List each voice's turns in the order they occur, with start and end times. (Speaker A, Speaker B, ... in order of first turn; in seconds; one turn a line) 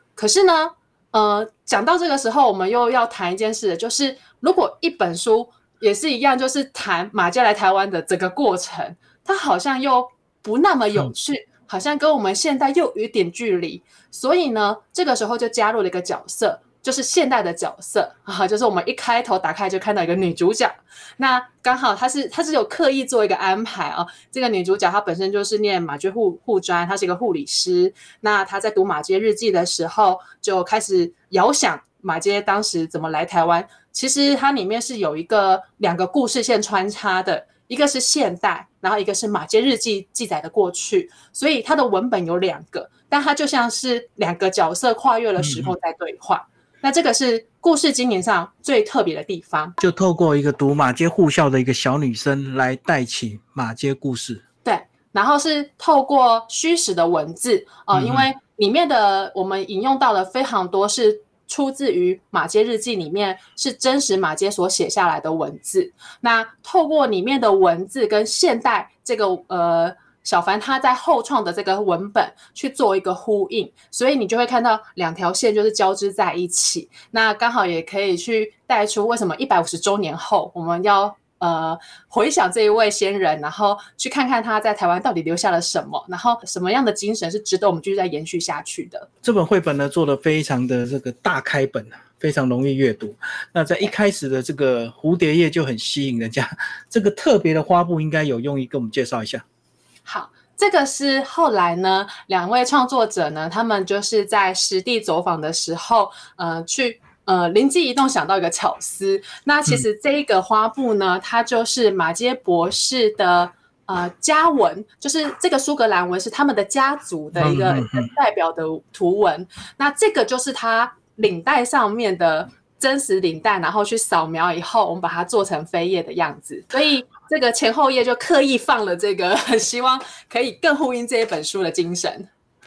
Speaker A: 0.1-49.8
Speaker B: 45.4-45.7
Speaker B: 49.8-54.4
Speaker A: 54.6-89.1
Speaker B: 57.9-58.3
Speaker B: 89.2-99.4
Speaker A: 100.0-132.3
Speaker B: 117.4-118.1